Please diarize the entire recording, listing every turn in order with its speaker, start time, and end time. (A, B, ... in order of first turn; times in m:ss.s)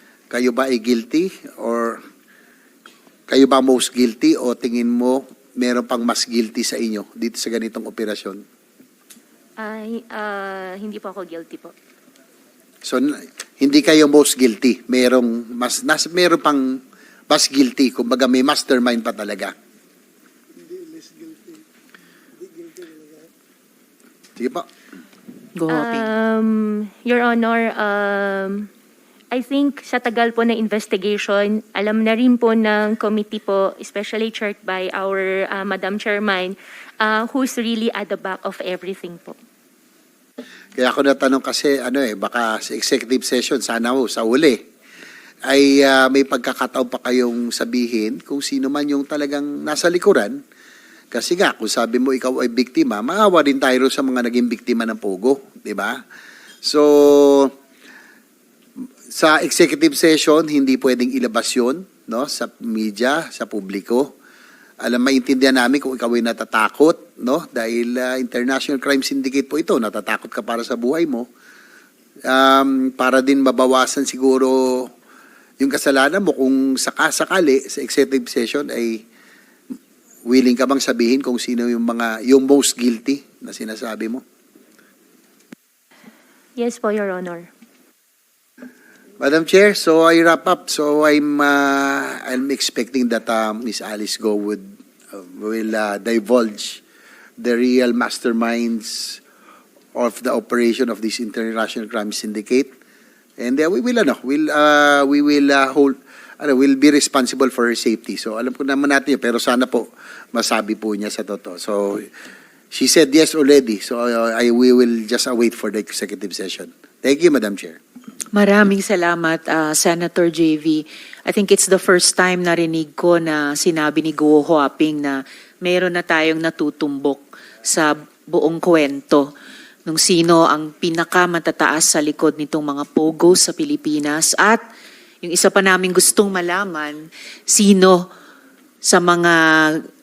0:00.3-0:02.0 A
0:03.3-0:08.4 A
0:09.6-0:11.7 B
0:12.8-0:19.5 A
0:24.4-0:24.7 A
0:25.6-0:26.1 C
0:25.7-0:28.7 B
0:29.3-0:39.4 B
0:40.8-0:44.6 A
0:45.5-0:50.4 A
0:51.1-0:56.0 A
0:56.6-0:57.5 A
0:59.1-1:04.1 A
1:04.8-1:11.3 A
1:12.3-1:14.9 A
1:15.6-1:19.0 A
1:20.3-1:24.2 A
1:26.6-1:27.5 B
1:29.2-1:36.8 A
1:37.4-1:39.2 A
1:40.0-1:42.7 A
1:43.4-1:52.1 A
1:52.7-1:57.8 A
1:58.3-2:09.3 C
2:09.9-2:14.6 C
2:15.2-2:18.1 C
2:18.8-2:19.8 C